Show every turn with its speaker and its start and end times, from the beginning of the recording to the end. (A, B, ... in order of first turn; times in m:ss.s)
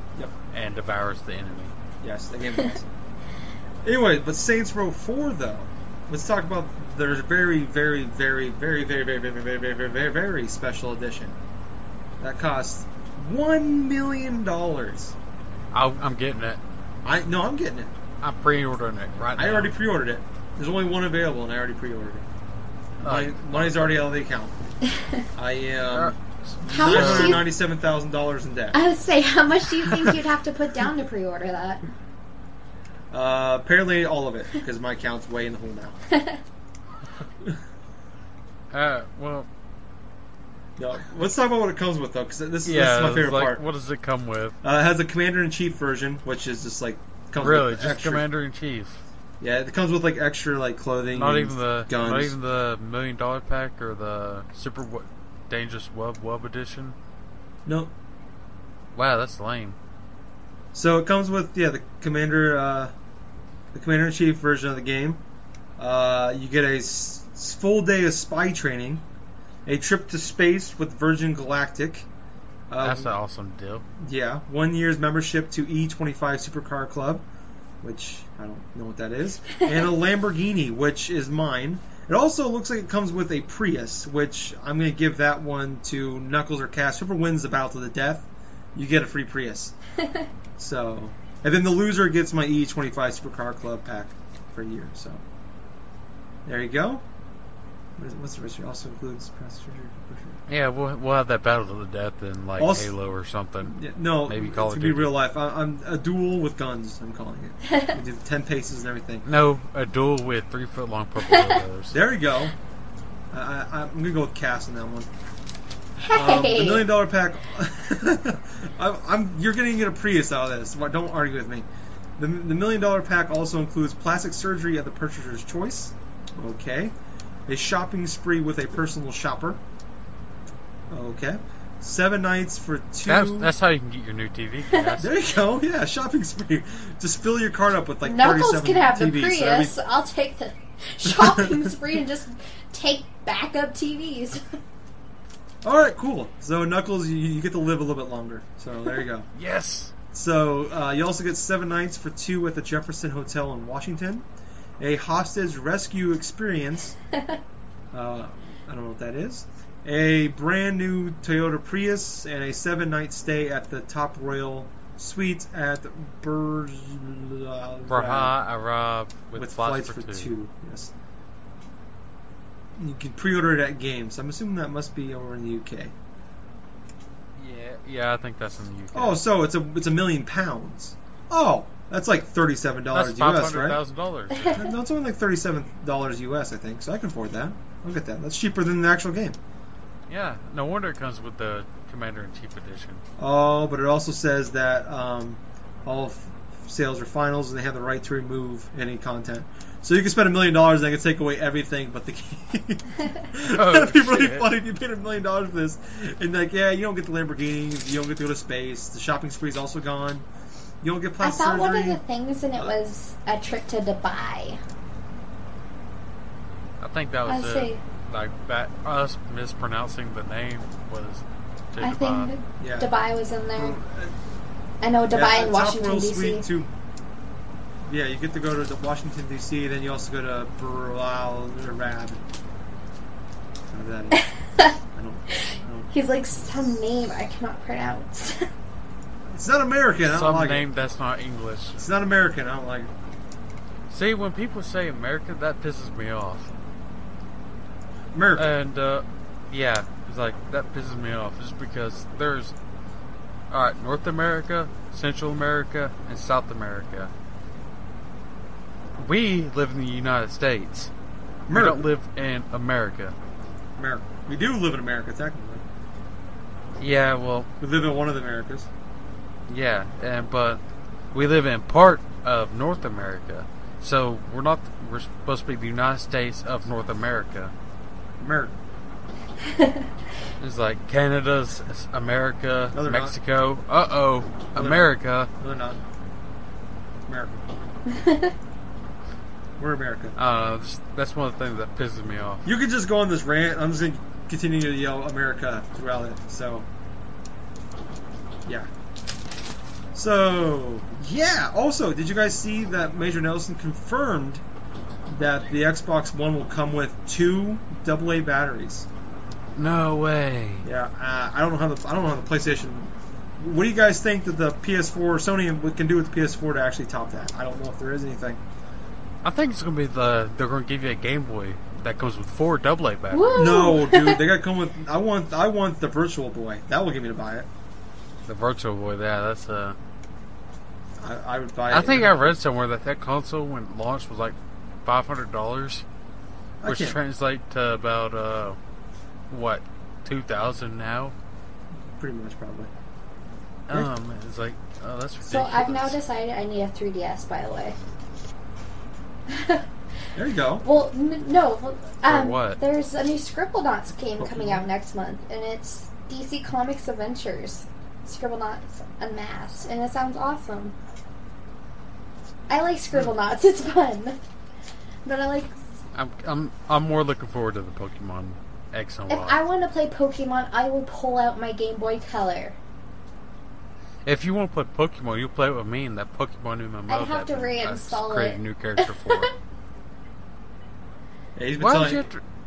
0:00.5-0:01.7 A
0:02.0-0:02.9 B
0:03.8-0:11.4 B
0:12.2-0:15.1 B
0:15.7-0:16.6 A
0:17.0-0:17.9 B
0:18.2-0:19.7 A
0:19.4-0:22.3 B
0:23.0-0:24.0 A
0:23.0-0:24.5 B
0:25.3-0:28.8 B
0:25.9-0:27.4 A
0:26.7-0:27.4 C
0:28.7-0:31.8 C
0:29.8-0:30.2 B
0:33.1-0:36.0 B
0:36.1-0:36.4 C
0:38.7-0:39.5 A
0:40.8-0:43.6 B
0:42.6-0:44.6 A
0:44.6-0:48.2 B
0:47.4-0:49.0 A
0:49.4-0:52.3 B
0:51.1-0:57.0 A
0:57.6-0:57.9 B
0:58.9-0:59.8 A
1:00.7-1:02.9 B
1:03.7-1:05.2 B
1:05.8-1:09.0 B
1:09.6-1:12.1 B
1:12.7-1:13.1 B
1:12.8-1:13.8 A
1:14.0-1:17.2 B
1:17.8-1:29.7 B
1:30.6-1:35.2 B
1:36.4-1:37.0 B
1:38.0-1:40.4 B
1:40.5-1:45.1 A
1:42.6-1:42.9 B
1:43.6-1:49.2 B
1:47.7-1:48.0 C
1:49.2-1:52.0 A
1:51.9-1:52.5 B
1:53.3-1:55.1 B
1:56.0-1:56.9 C
1:56.1-2:01.7 B
2:02.2-2:06.9 B
2:07.5-2:09.6 B
2:10.9-2:13.5 B
2:13.0-2:15.1 A
2:15.0-2:19.8 B
2:18.0-2:24.5 C
2:21.0-2:21.8 B
2:25.6-2:29.3 B
2:29.3-2:29.9 A
2:30.1-2:34.2 B
2:34.8-2:37.0 B
2:37.9-2:48.4 B
2:47.9-2:50.3 A
2:49.3-2:50.9 B
2:52.8-2:55.9 B
2:57.4-2:59.2 A
2:58.9-3:03.8 B
3:02.9-3:04.6 A
3:04.4-3:09.4 B
3:10.1-3:13.0 A
3:13.2-3:30.2 B
3:23.4-3:24.5 A
3:30.8-3:32.0 B
3:31.2-3:34.6 C
3:36.8-3:42.3 A
3:37.3-3:37.8 C
3:41.8-3:43.8 C
3:42.6-3:42.9 B
3:43.5-3:44.1 B
3:44.8-3:46.4 C
3:45.1-3:46.7 B
3:47.8-3:52.2 B
3:53.7-3:54.3 B
3:54.2-3:54.7 C
3:54.8-3:56.7 B
3:55.9-3:58.5 C
3:59.3-4:00.7 B
4:00.0-4:01.8 A
4:01.8-4:02.9 B
4:03.9-4:06.5 A
4:08.1-4:08.5 B
4:08.3-4:12.5 A
4:13.5-4:17.1 A
4:19.0-4:20.9 A
4:21.5-4:21.9 B
4:21.5-4:23.1 A
4:23.8-4:25.6 B
4:26.8-4:27.5 A
4:27.6-4:28.7 B
4:29.5-4:30.6 A
4:31.1-4:37.5 A
4:38.2-4:38.5 B
4:39.6-4:39.8 C
4:40.4-4:45.3 A
4:42.7-4:43.1 B
4:44.5-4:45.8 B
4:47.1-4:47.4 B
4:47.9-4:48.3 C
4:49.6-4:50.1 B
4:50.2-4:52.4 A
4:52.4-4:56.7 B
4:59.9-5:04.4 B
5:05.1-5:08.9 B
5:09.6-5:10.7 A
5:10.6-5:18.4 B
5:19.2-5:23.5 A
5:23.1-5:24.2 C
5:23.3-5:27.5 B
5:28.2-5:29.8 A
5:31.0-5:32.3 B
5:31.7-5:35.8 A
5:36.6-5:37.0 B
5:36.6-5:38.6 A
5:39.3-5:41.1 A
5:41.9-5:42.7 B
5:43.7-5:46.0 A
5:45.2-5:47.8 C
5:49.3-5:49.6 C
5:50.1-5:50.6 B
5:50.6-6:00.8 C
5:52.0-5:52.6 A
5:54.2-5:54.7 B
6:02.5-6:04.2 C
6:05.0-6:05.5 C
6:05.9-6:09.4 A
6:09.1-6:12.6 C
6:14.0-6:19.3 A
6:16.9-6:19.3 C
6:21.4-6:22.0 B
6:21.6-6:22.2 A